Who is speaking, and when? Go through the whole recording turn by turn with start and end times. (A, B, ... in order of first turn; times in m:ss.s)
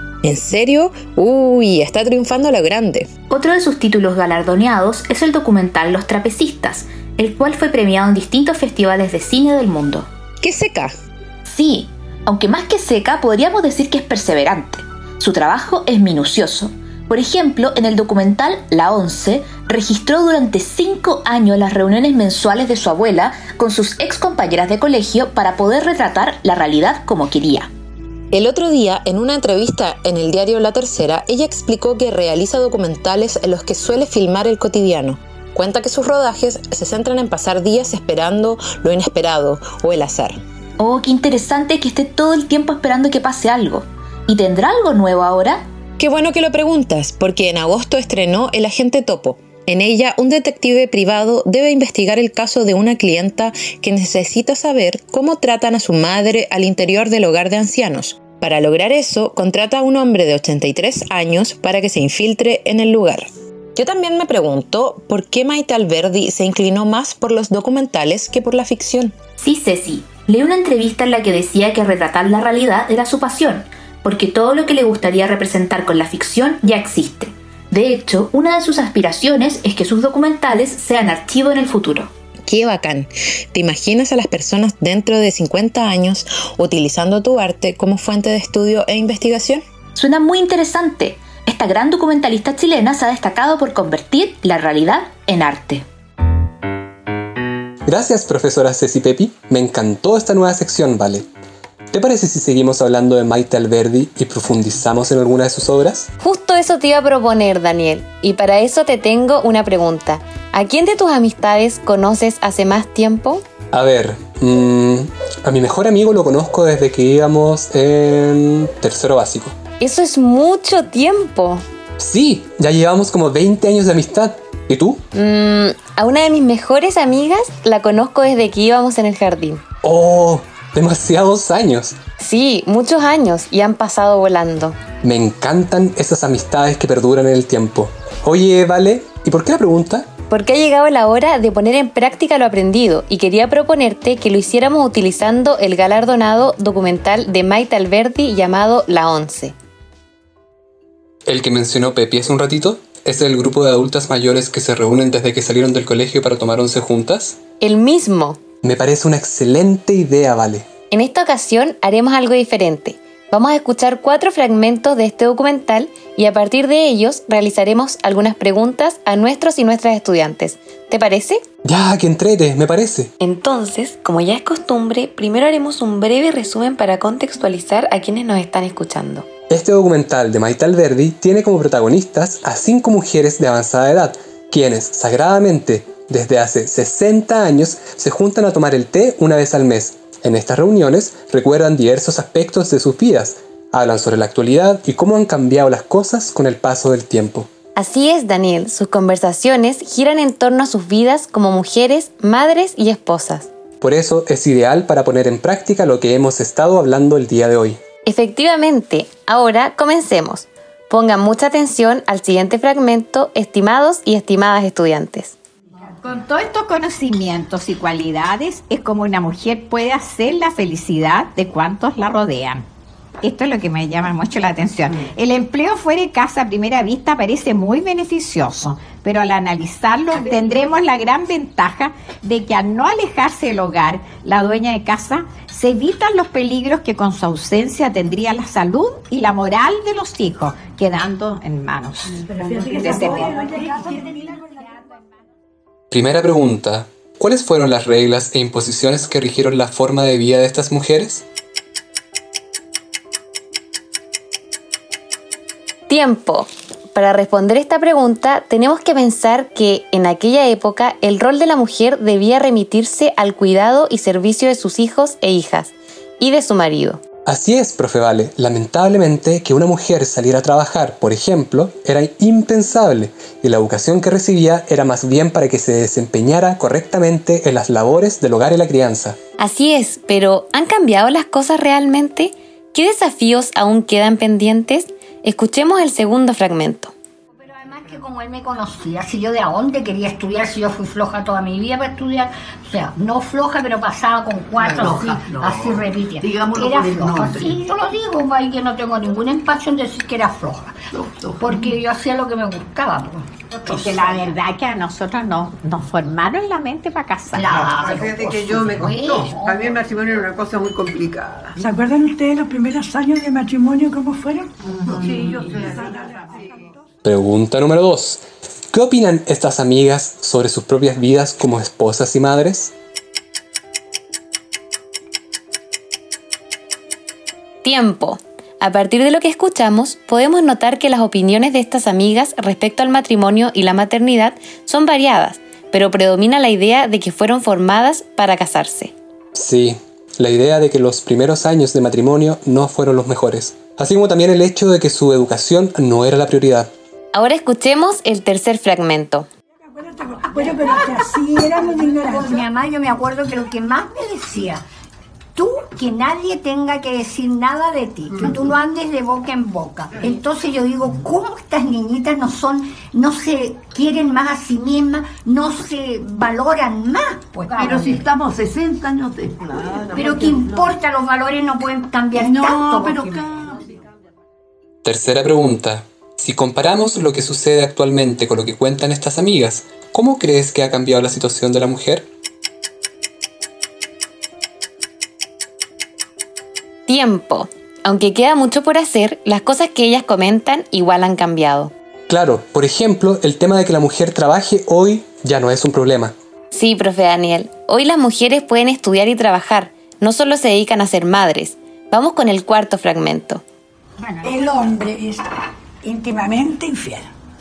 0:00.2-0:03.1 A
0:03.3-0:10.1 B
0:10.4-0:11.0 A
0:11.5-0:27.7 B
0:28.3-0:40.4 A
0:40.8-0:45.7 B
0:46.0-1:09.1 A
1:09.4-1:22.1 B
1:22.5-1:29.6 A
1:30.0-1:35.8 B
1:37.9-1:41.3 C
1:41.9-1:46.1 C
1:46.2-1:53.4 D
1:53.7-1:59.6 C
1:59.8-2:01.6 D
2:02.0-2:05.0 C
2:05.1-2:09.6 D
2:09.8-2:12.0 C
2:12.2-2:14.8 D
2:15.0-2:20.1 C
2:20.3-2:29.5 D
2:31.3-2:37.4 C
2:37.6-2:38.4 D
2:38.6-2:40.7 C
2:40.9-2:51.4 D
2:51.6-2:53.1 C
2:53.2-2:59.3 D
2:59.5-3:17.5 C
3:17.8-3:23.5 D
3:23.8-3:27.8 C
3:28.1-3:35.4 D
3:36.0-3:42.6 E
3:43.2-4:03.5 E
4:02.3-4:04.7 F
4:05.9-4:11.2 C
4:15.9-4:27.0 D
4:27.3-4:39.2 C
4:39.4-4:46.9 D
4:47.4-5:00.8 G
4:54.6-4:57.7 H
5:00.9-5:01.8 H
5:01.4-5:04.3 G
5:03.7-5:07.5 E
5:07.3-5:09.8 G
5:07.5-5:11.6 H
5:11.6-5:14.5 F
5:14.7-5:16.0 H
5:15.0-5:16.8 F
5:17.0-5:22.7 C
5:27.6-5:38.9 D
5:39.3-5:46.7 C
5:47.1-5:49.3 D
5:49.6-5:52.4 F
5:50.4-5:54.6 G
5:55.4-6:08.1 G
6:07.5-6:10.8 H
6:09.9-6:13.4 G
6:12.1-6:13.8 H
6:14.8-6:22.1 C
6:26.9-6:31.7 D
6:32.1-6:36.1 C
6:36.5-6:43.4 D
6:44.0-6:44.6 G
6:44.2-6:45.2 F
6:45.8-6:47.1 F